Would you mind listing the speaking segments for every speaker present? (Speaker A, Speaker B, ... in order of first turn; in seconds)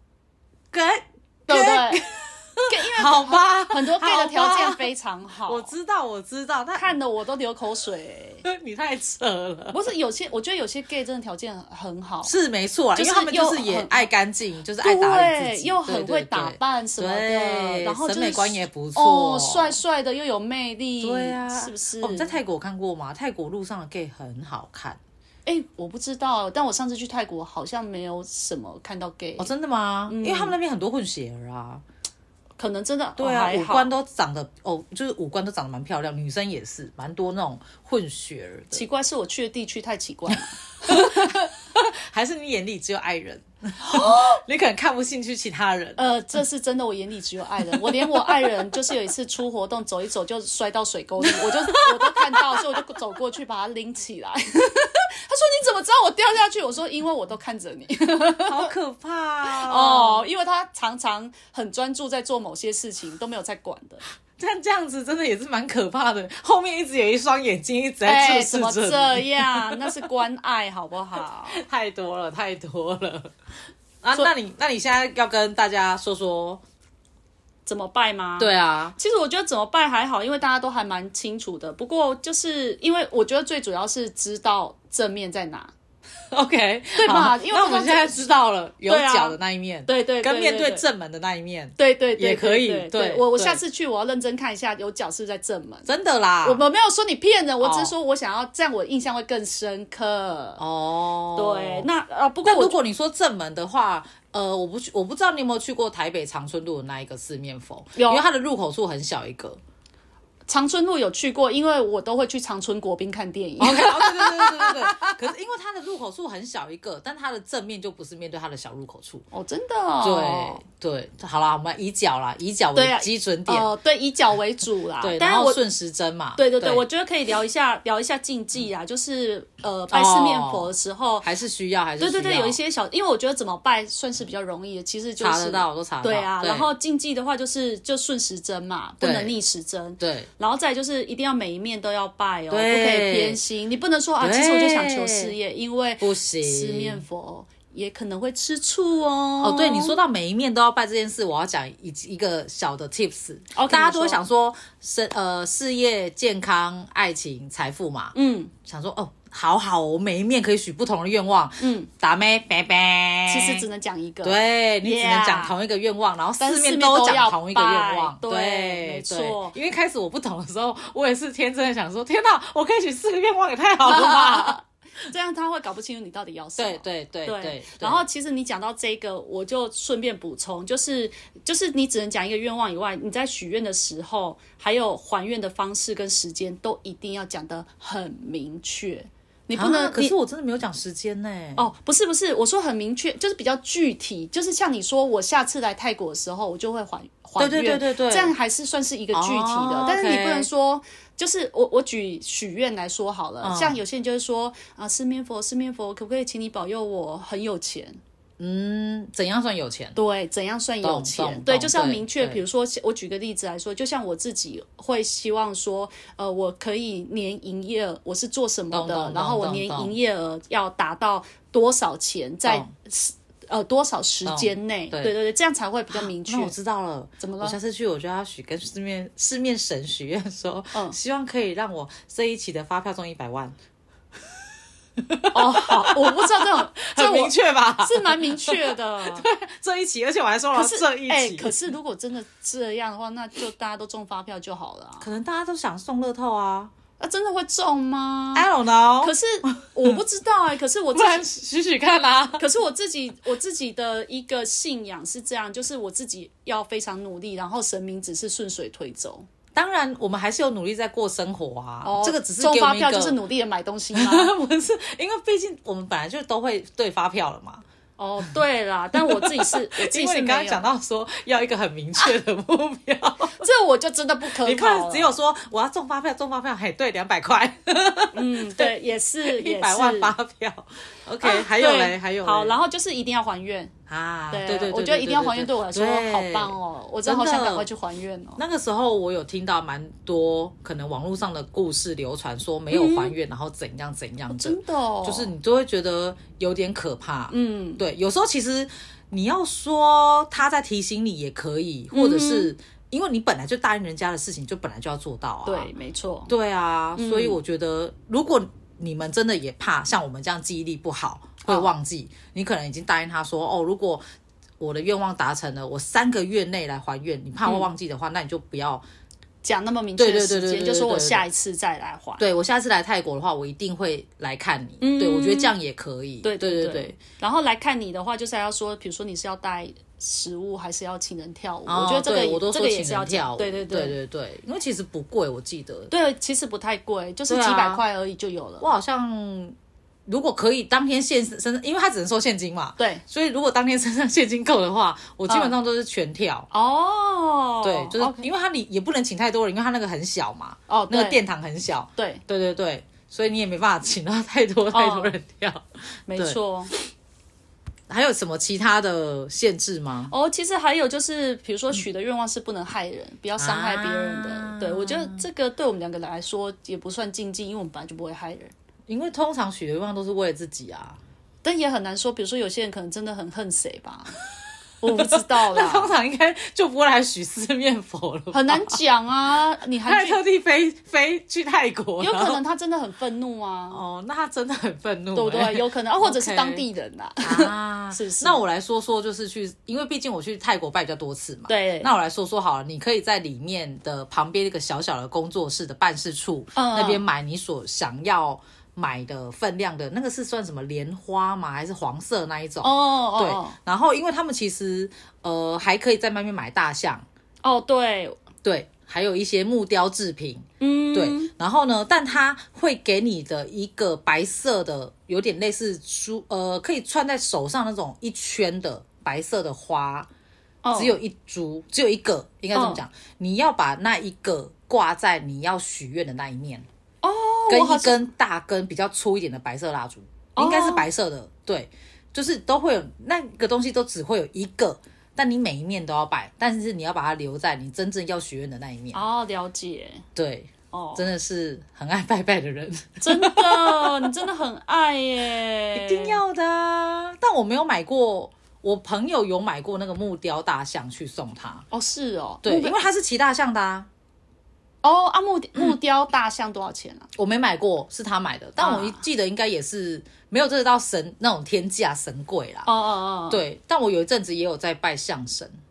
Speaker A: 0.7-4.9, 5.5-7.0, 8.4-9.8, 12.2-19.8, 21.0-25.0, 29.4-31.8, 33.2-38.9, 40.3-46.1, 47.6-48.6, 51.2-53.0, 58.5-60.3, 64.4-70.0, 71.5-73.3, 74.0-76.6, 78.4-79.0, 86.3-93.6, 95.8-96.6, 97.6-97.9, 100.6-101.9, 102.4-109.6, 113.6-119.2, 120.0-123.7, 125.0-126.8, 129.9-130.7, 131.2-132.6, 135.2-136.7, 139.0-139.3, 140.0-140.3, 142.5-143.4, 144.2-145.3, 146.0-147.0, 149.4-158.1, 158.6-163.6, 164.2-174.6, 176.6-178.0, 189.5-191.6, 197.4-198.3, 199.1-200.5, 203.4-203.8, 208.4-210.0, 210.8-212.4, 218.7-219.9, 222.4-222.7, 224.2-225.2, 225.9-233.5, 235.0-241.5, 245.0-246.7, 248.3-250.0, 250.9-252.4, 259.5-263.2, 263.9-267.6, 268.9-273.4, 274.3-278.7, 279.2-282.5, 283.9-287.7, 288.4-305.7, 306.3-314.0, 314.6-318.8, 320.0-321.2, 322.2-327.0, 331.7-335.9, 337.3-337.8, 338.6-346.5, 347.6-356.4, 357.9-360.1, 363.4-365.2, 368.9-371.0, 374.9-378.8, 379.8-382.4, 383.7-386.6, 387.2-407.0, 408.4-420.1, 420.7-426.6, 427.5-439.0, 440.1-444.1, 445.7-451.6, 452.4-453.9, 457.1-462.7, 463.3-465.6
Speaker B: 1.5-2.0, 2.7-5.7, 6.7-8.4, 9.7-12.3, 12.9-14.0, 14.8-22.4, 25.4-29.5, 30.1-30.6, 32.6-33.9, 38.7-41.5, 43.8-44.4, 46.0-58.7, 59.4-64.0, 68.0-71.6, 77.7-85.7, 87.0-88.2, 88.8-90.8, 91.8-95.9, 96.4-100.6, 101.3-102.8, 108.0-108.2, 110.5-115.2, 119.3-120.6, 122.7-125.6, 126.3-131.3, 132.0-150.0, 153.5-154.2, 158.1-158.5, 161.6-161.9, 163.3-165.6, 166.4-169.5, 173.8-190.1, 191.6-208.0, 209.9-226.5, 227.2-227.6, 235.3-239.2, 240.5-245.1, 247.0-248.5, 249.0-251.3, 252.4-259.3, 261.8-264.3, 268.0-270.7, 273.4-275.1, 278.1-280.1, 281.2-283.7, 284.3-288.4, 292.7-293.1, 294.3-295.3, 297.3-297.8, 301.9-302.5, 305.4-306.3, 306.9-307.4, 311.4-311.7, 319.4-322.2, 324.8-325.5, 326.2-333.9, 335.9-338.7, 342.8-343.0, 345.3-345.5, 346.5-348.3, 350.7-351.2, 352.0-352.2, 354.7-355.1, 356.1-356.7, 360.1-368.5, 371.4-374.1, 374.8-375.9, 378.3-380.2, 382.0-383.8, 385.1-388.4, 391.5-391.9, 396.5-397.0, 402.6-403.6, 407.4-408.2, 410.6-411.3, 420.6-421.0, 422.5-422.8, 427.0-428.1, 430.4-430.9, 438.9-440.0, 440.7-441.1, 443.0-446.2, 451.7-452.8, 454.8-457.1, 458.6-459.0, 462.6-463.4